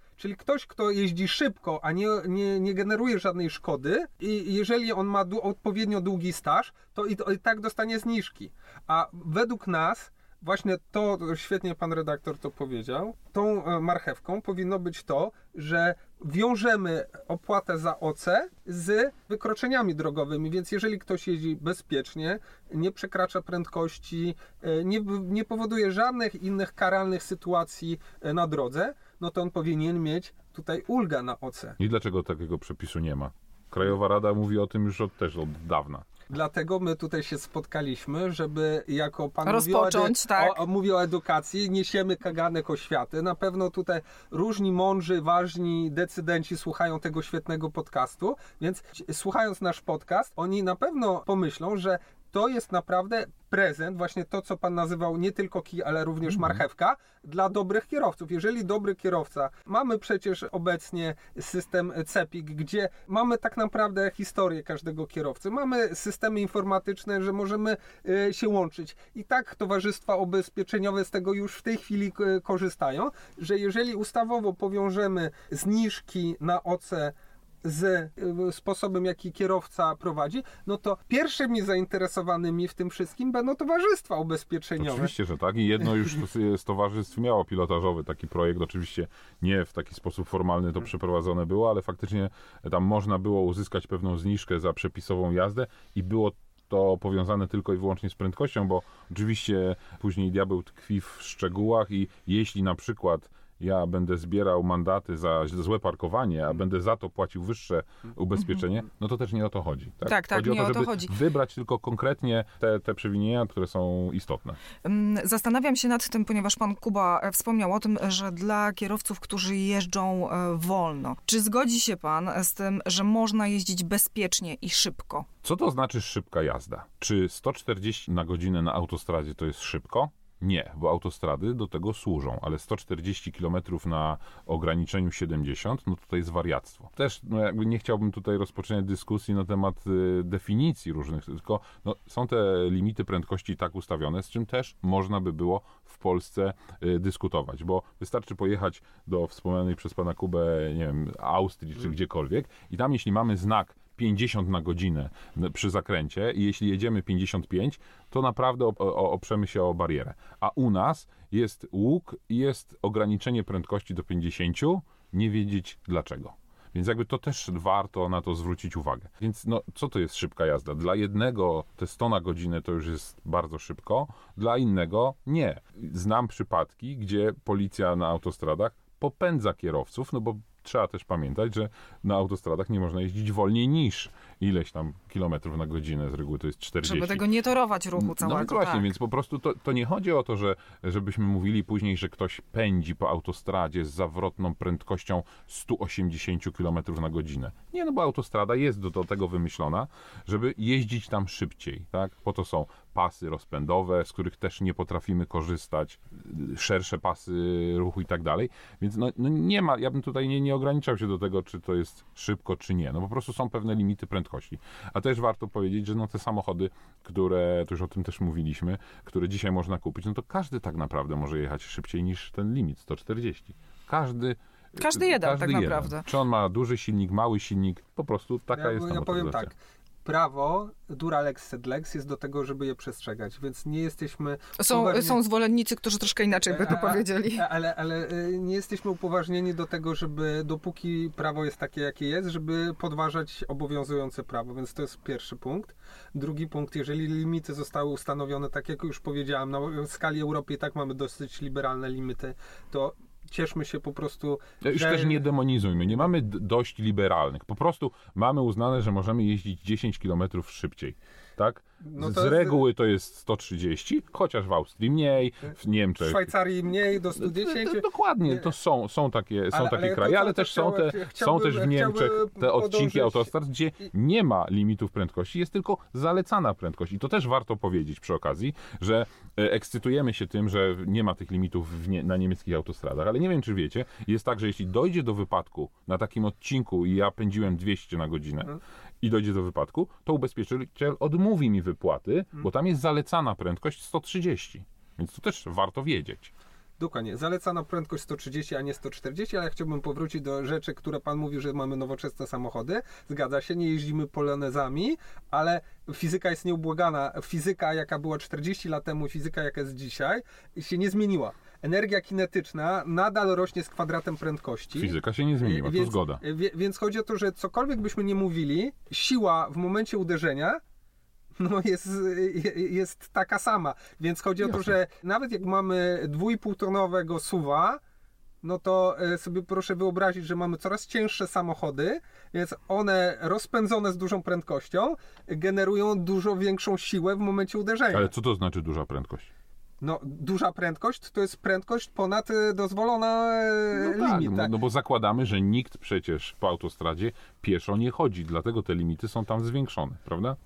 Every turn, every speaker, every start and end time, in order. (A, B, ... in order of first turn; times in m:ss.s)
0:00.2-0:31.8 A
0:31.8-0:36.1 B
0:36.3-1:25.1 A
0:39.4-0:40.6 C
1:24.8-1:54.6 B
1:50.0-1:51.1 C
1:54.8-2:05.3 C
2:05.4-3:07.3 B
3:06.8-3:08.9 C
3:08.0-3:49.5 B
3:44.8-3:46.1 C
3:48.5-3:55.2 A
3:54.6-3:57.5 C
3:56.3-4:15.2 A
4:14.6-4:26.3 B
4:21.8-4:22.6 A
4:26.0-4:28.5 A
4:27.2-4:56.3 B
4:29.5-4:33.3 A
4:56.8-5:20.6 A
5:14.8-5:16.2 B
5:21.4-5:27.8 A
5:24.4-5:24.8 B
5:28.4-5:38.1 A
5:37.9-5:39.3 B
5:39.8-5:44.5 A
5:43.7-5:50.4 B